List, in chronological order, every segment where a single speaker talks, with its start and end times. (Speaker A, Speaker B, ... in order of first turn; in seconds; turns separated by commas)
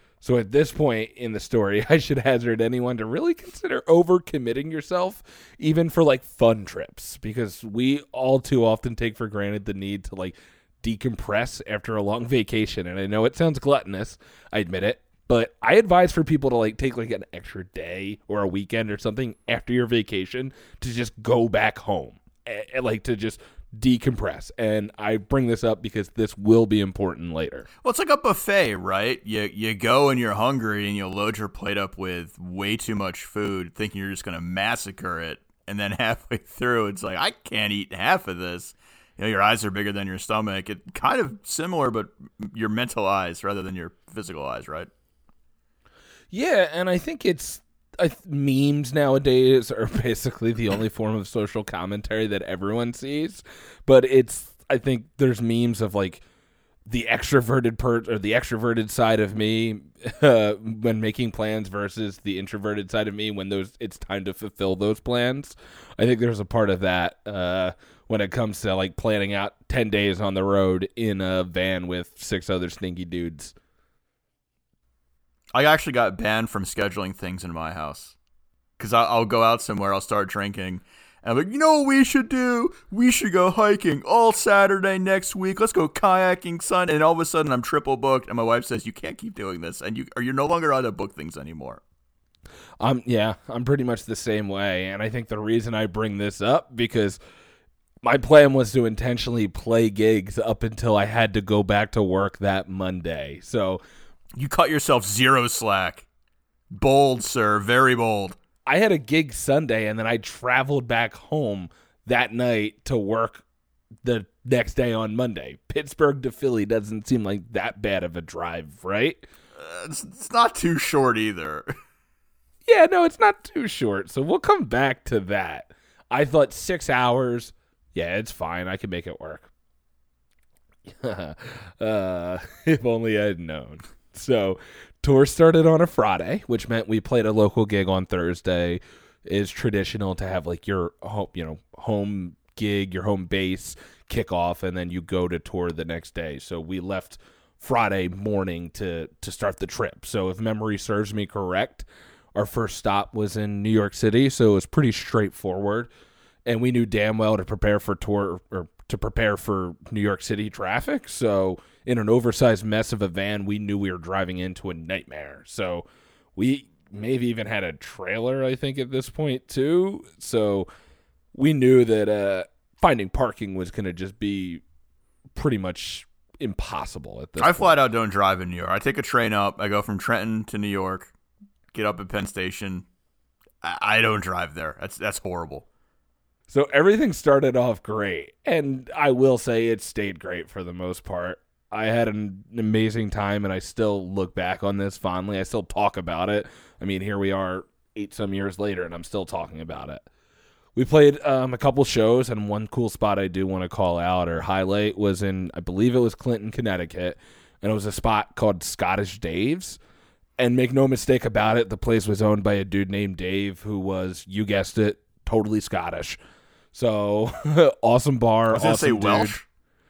Speaker A: 0.2-27.7, Speaker B: 27.8-44.9, Speaker A: 46.3-56.2, Speaker A: 56.9-73.5, Speaker B: 75.5-78.2, Speaker B: 78.8-91.8, Speaker A: 92.8-97.2, Speaker A: 98.0-103.8, Speaker B: 104.3-106.0, Speaker B: 106.7-108.4, Speaker A: 108.7-113.4, Speaker A: 114.0-119.3, Speaker B: 119.5-121.7, Speaker A: 122.7-129.5, Speaker A: 130.9-155.9, Speaker A: 156.4-170.7, Speaker A: 171.3-174.6, Speaker A: 175.3-177.8, Speaker B: 177.4-181.1, Speaker B: 181.7-182.8, Speaker B: 183.6-185.6, Speaker A: 186.5-200.0, Speaker A: 200.8-209.8, Speaker A: 210.4-216.2, Speaker A: 216.7-219.4, Speaker B: 218.5-219.4